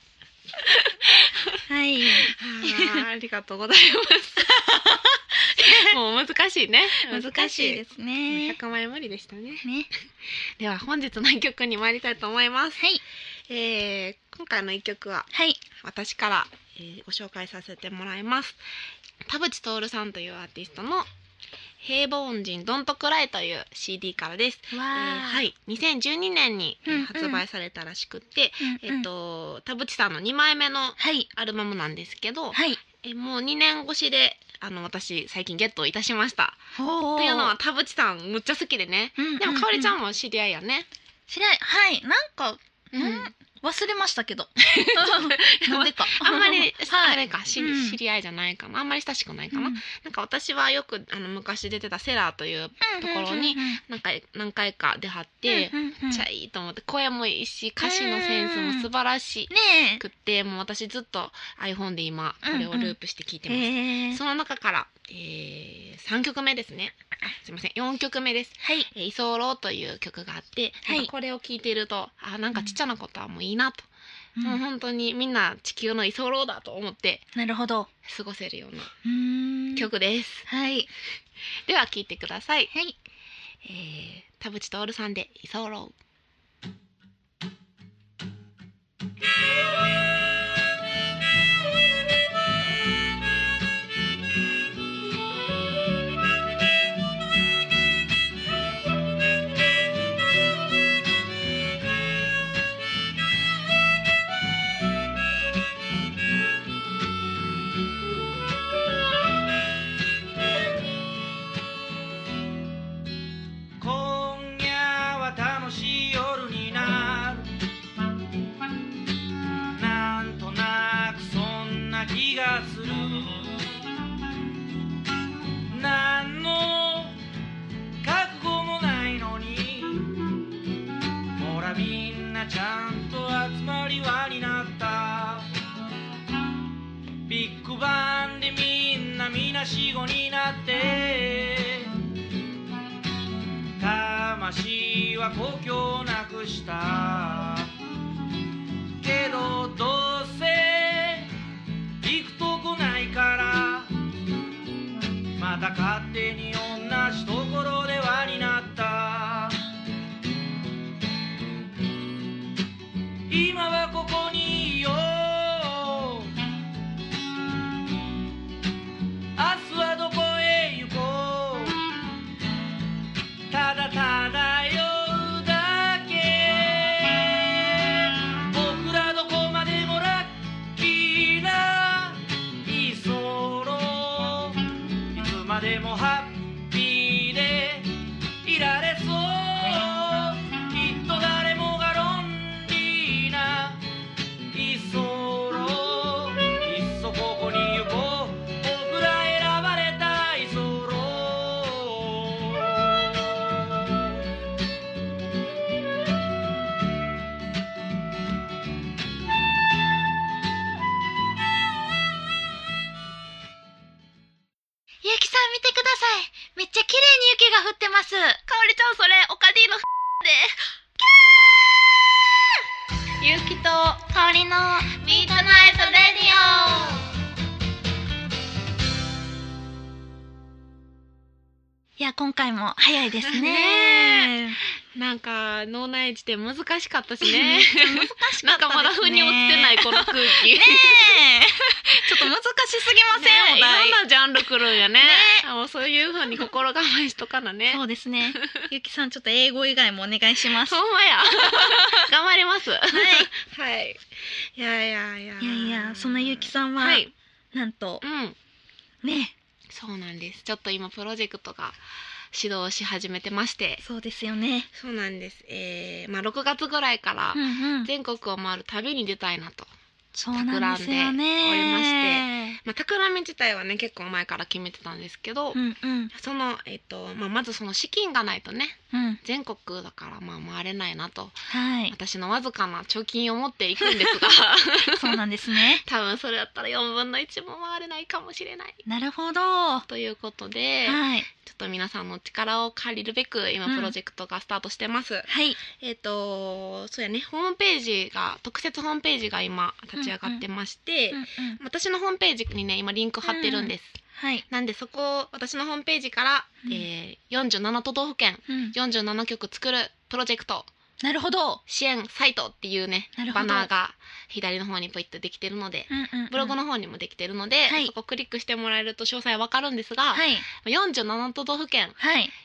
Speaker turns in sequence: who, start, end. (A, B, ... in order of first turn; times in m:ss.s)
0:00.7-0:01.6 A
0:01.7-0:03.0 B
0:02.2-0:04.5 A
0:04.4-0:06.0 B
0:05.5-0:09.7 A
0:07.0-0:08.6 B
0:09.6-0:09.9 B
0:10.6-0:12.8 A
0:13.5-0:18.6 A
0:15.3-0:15.6 B
0:19.3-0:21.1 A
0:21.8-0:40.9 A
0:24.7-0:25.4 B
0:26.9-0:27.4 B
0:28.6-0:29.1 B
0:31.0-0:31.3 B
0:32.5-0:32.8 B
0:36.8-0:37.5 B
0:39.2-0:40.0 B
0:41.3-0:48.0 B
0:42.9-0:43.3 A
0:44.6-1:13.9 A
0:49.5-0:49.8 B
0:52.8-0:53.8 B
0:55.5-0:56.2 B
0:57.8-0:58.9 B
0:59.5-1:00.0 B
1:02.4-1:03.0 B
1:03.5-1:04.2 B
1:08.6-1:08.9 B
1:10.8-1:11.1 B
1:14.4-1:17.3 A
1:17.3-1:17.9 B
1:18.0-1:18.9 A
1:19.0-1:19.9 B
1:19.8-1:20.5 A
1:20.5-1:20.9 B
1:21.7-1:22.7 A
1:23.6-1:26.0 A
1:53.8-1:57.5 C
1:59.7-2:03.5 C
2:05.7-2:07.2 C
2:08.0-2:10.2 C
2:11.4-2:15.5 C
2:17.3-2:22.0 C
2:23.8-2:27.7 C
2:29.0-2:31.3 C
2:32.0-2:33.9 C
2:35.4-2:39.6 C
2:43.3-2:46.3 C
2:49.4-2:51.8 C
2:53.5-3:13.8 C
3:14.5-3:24.2 C
3:35.0-3:38.4 B
3:38.5-3:40.5 A
3:41.1-3:42.4 B
3:43.2-3:44.1 A
3:44.0-3:47.0 B
3:44.9-3:47.0 A
3:52.0-3:54.6 B
3:53.2-3:54.4 A
3:54.9-4:01.2 A
3:57.2-4:04.0 B
4:03.1-4:07.8 A
4:04.9-4:05.5 B
4:07.7-4:12.1 B
4:08.3-4:08.7 A
4:10.6-4:14.0 A
4:12.9-4:13.3 B
4:14.6-4:17.1 A
4:15.4-4:18.0 B
4:18.0-4:18.4 A
4:19.0-4:19.3 B
4:19.7-4:21.8 A
4:22.3-4:23.8 A
4:23.8-4:24.7 B
4:24.7-4:29.7 A
4:27.4-4:27.9 B
4:30.2-4:32.6 B
4:30.3-4:35.6 A
4:35.5-4:36.1 B
4:36.1-4:45.2 A
4:38.9-4:39.2 B
4:41.5-4:42.0 B
4:43.8-4:44.3 B
4:44.8-4:45.8 B
4:45.8-4:48.8 A
4:48.9-4:49.9 B
4:49.9-5:10.7 A
4:50.8-4:51.3 B
4:53.7-4:53.9 B
4:55.3-4:55.6 B
5:00.0-5:00.4 B
5:01.1-5:01.6 B
5:03.2-5:04.4 B
5:08.5-5:08.8 B
5:11.0-5:11.6 B
5:11.7-5:22.0 A
5:13.2-5:13.7 B
5:15.9-5:16.6 B
5:17.7-5:17.9 B
5:20.1-5:20.5 B
5:22.0-5:22.3 B